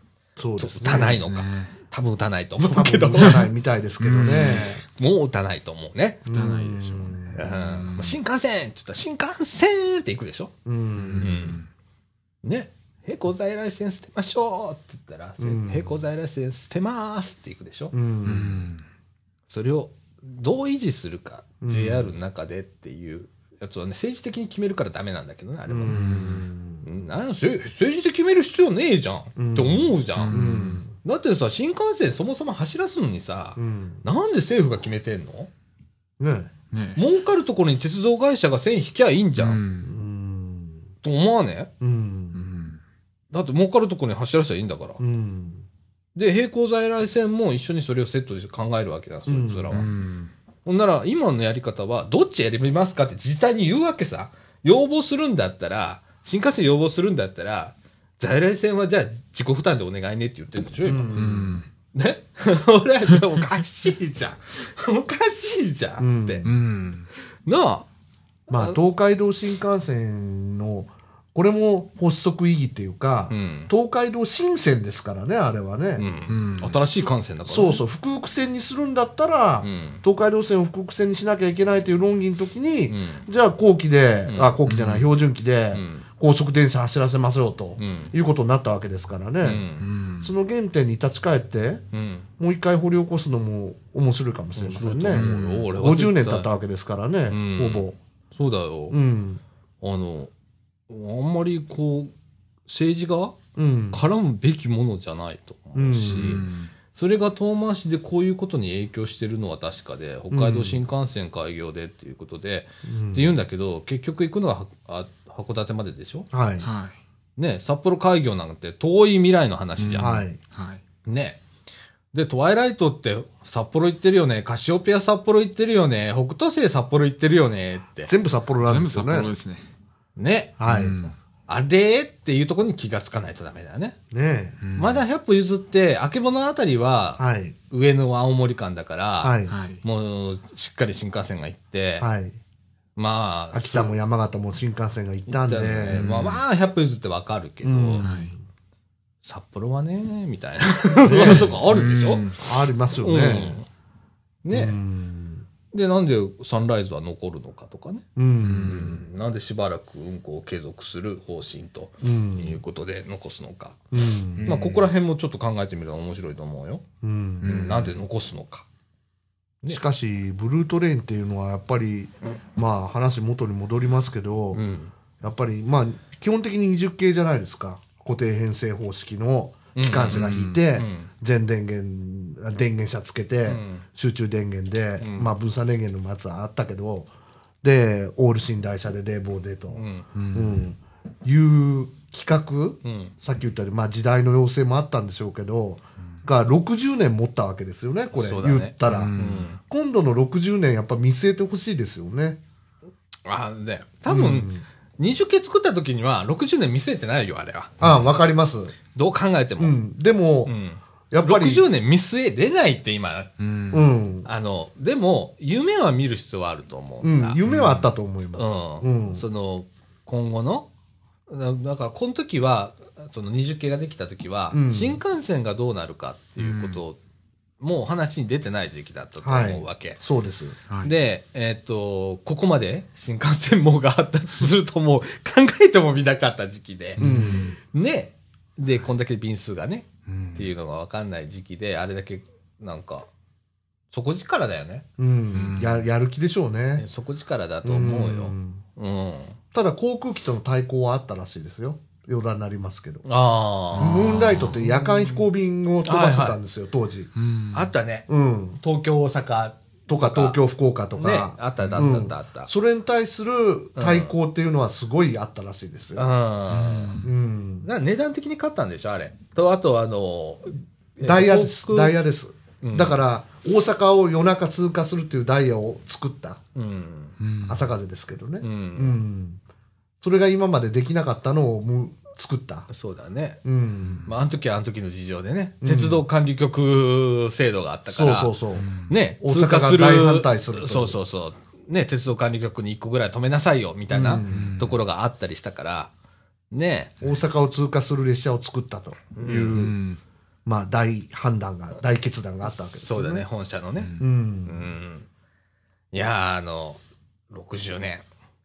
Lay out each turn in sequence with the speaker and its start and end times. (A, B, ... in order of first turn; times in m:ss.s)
0:00.4-0:01.3 A
0:00.6-0:03.4 B
0:01.2-0:01.8 C
0:02.6-0:04.8 A
0:03.2-0:03.4 C
0:04.0-0:04.8 C
0:04.2-0:06.2 B
0:06.2-0:07.5 A
0:06.3-0:08.2 C
0:07.3-0:10.5 B
0:10.6-0:11.5 A
0:11.0-0:11.7 C
0:11.2-0:11.6 B
0:12.4-0:17.9 B
0:15.4-0:15.9 A
0:17.9-0:18.7 A
0:18.2-0:18.8 C
0:19.5-0:26.0 B
0:21.6-0:22.1 A
0:25.7-0:26.8 A
0:25.9-0:26.4 C
0:26.8-0:35.5 B
0:29.4-0:30.9 A
0:30.2-0:30.8 C
0:33.6-0:34.0 A
0:36.2-0:36.5 A
0:36.7-0:37.0 C
0:37.0-0:39.6 B
0:39.4-0:40.0 C
0:39.8-0:40.8 A
0:41.0-0:41.7 B
0:41.8-0:42.4 A
0:42.3-0:42.8 C
0:43.3-0:45.0 B
0:45.0-0:45.7 A
0:46.2-0:49.9 B
0:49.3-0:49.8 A
0:49.7-0:50.3 C
0:50.6-1:01.3 B
1:00.8-1:01.6 A
1:01.1-1:01.7 C
1:01.9-1:06.4 B
1:06.0-1:06.5 A
1:06.4-1:07.1 C
1:07.4-1:07.8 B
1:08.5-1:16.1 A
1:08.5-1:08.8 B
1:13.3-1:13.7 B
1:16.0-1:17.8 B
1:16.3-1:16.8 C
1:17.5-1:29.6 A
1:19.6-1:20.0 B
1:22.9-1:23.3 B
1:24.3-1:24.6 B
1:24.6-1:25.1 C
1:25.7-1:26.0 B
1:27.8-1:28.1 B
1:29.4-1:29.9 B
1:29.8-1:30.3 C
1:30.2-1:31.8 A
1:31.9-1:32.3 B
1:32.4-1:38.0 A
1:34.5-1:36.5 B
1:35.1-1:35.7 C
1:37.3-1:39.0 B
1:38.9-1:39.4 A
1:39.8-1:40.3 B
1:40.9-1:42.1 B
1:42.7-1:43.4 B
1:43.5-1:44.0 A
1:43.9-1:56.3 B
1:45.7-1:46.4 A
1:46.0-1:46.7 C
1:50.3-1:50.8 A
1:52.8-1:53.4 A
1:56.3-1:56.7 A
1:56.6-1:56.9 C
1:57.4-2:00.2 B
1:59.8-2:00.8 C
2:00.0-2:00.4 A
2:01.0-2:01.4 B
2:02.1-2:08.1 B
2:08.1-2:09.3 A
2:08.6-2:09.6 C
2:10.2-2:10.8 B
2:10.6-2:10.9 A
2:10.6-2:11.1 C
2:11.5-2:14.0 B
2:14.1-2:14.6 A
2:14.6-2:15.0 C
2:14.8-2:22.1 B
2:17.2-2:17.6 A
2:19.2-2:19.6 A
2:19.4-2:19.8 C
2:22.0-2:22.4 A
2:23.0-2:23.9 B
2:23.5-2:26.3 A
2:25.3-2:28.0 B
2:25.9-2:26.4 C
2:27.6-2:28.4 A
2:28.0-2:28.3 C
2:29.2-2:32.3 B
2:31.0-2:31.7 A
2:31.3-2:32.4 C
2:32.4-2:33.6 A
2:32.9-2:33.6 B
2:34.4-2:34.8 B
2:34.5-2:35.4 A
2:35.7-2:38.0 B
2:38.2-2:39.0 A
2:38.4-2:39.0 C
2:38.6-2:43.8 B
2:42.0-2:42.6 A
2:43.9-2:44.8 A
2:44.4-2:46.8 B
2:47.0-2:47.9 A
2:47.4-2:48.6 B
2:47.4-2:47.9 C
2:49.7-2:54.6 A
2:54.5-2:54.9 B
2:55.2-3:07.1 A
2:59.7-3:01.1 B
3:00.1-3:00.6 C
3:03.4-3:03.8 B
3:05.0-3:05.3 B
3:07.6-3:22.4 A
3:09.7-3:10.1 B
3:10.1-3:10.6 C
3:12.8-3:13.1 B
3:18.1-3:19.6 B
3:18.8-3:19.5 C
3:23.3-3:27.8 B
3:24.1-3:24.6 A
3:27.8-3:28.7 A
3:28.9-3:29.8 B
3:29.6-3:30.5 A
3:30.4-3:33.3 B
3:31.1-3:31.6 A
3:33.4-3:33.9 C
3:33.7-3:34.3 A
3:34.2-3:37.4 B
3:37.0-3:39.2 A
3:37.4-3:37.9 C
3:38.3-3:40.7 B
3:41.3-3:47.0 B
3:44.5-3:45.0 A
3:46.4-3:46.8 C
3:47.6-3:50.0 B
3:49.2-3:50.6 A
3:50.8-3:57.0 B
3:57.0-3:57.5 C
3:57.0-3:57.6 A
3:57.7-4:03.1 B
4:00.1-4:00.5 C
4:03.9-4:04.8 B
4:05.0-4:06.8 A
4:05.3-4:05.8 C
4:06.8-4:09.4 B
4:07.6-4:08.6 A
4:09.5-4:13.0 A
4:13.0-4:15.2 B
4:13.7-4:14.6 C
4:13.8-4:17.1 A
4:15.8-4:16.4 B
4:17.2-4:17.7 C
4:17.5-4:18.1 B
4:18.1-4:18.6 A
4:18.6-4:20.4 B
4:19.9-4:26.1 A
4:20.9-4:22.5 B
4:23.8-4:24.2 B
4:26.0-4:27.0 B
4:26.5-4:27.0 C
4:27.0-4:27.7 A
4:27.6-4:32.0 B
4:31.0-4:36.4 A
4:32.6-4:33.0 B
4:36.5-4:37.2 B
4:37.2-4:37.7 C
4:37.4-4:39.4 A
4:38.4-4:39.0 B
4:40.0-4:42.7 A
4:42.7-4:43.4 B
4:43.4-4:44.1 A
4:44.0-4:48.3 B
4:45.6-4:46.0 A
4:47.9-4:51.0 A
4:48.6-4:48.9 C
4:48.9-4:55.9 B
4:53.9-4:54.6 A
4:54.2-4:54.7 C
4:56.5-4:57.0 B
4:57.0-4:59.8 A
4:59.2-4:59.7 B
4:59.5-5:00.0 C
5:00.4-5:03.3 A
5:02.4-5:05.1 B
5:03.8-5:04.0 C
5:04.0-5:04.7 A
5:05.9-5:06.8 B
5:07.3-5:08.0 B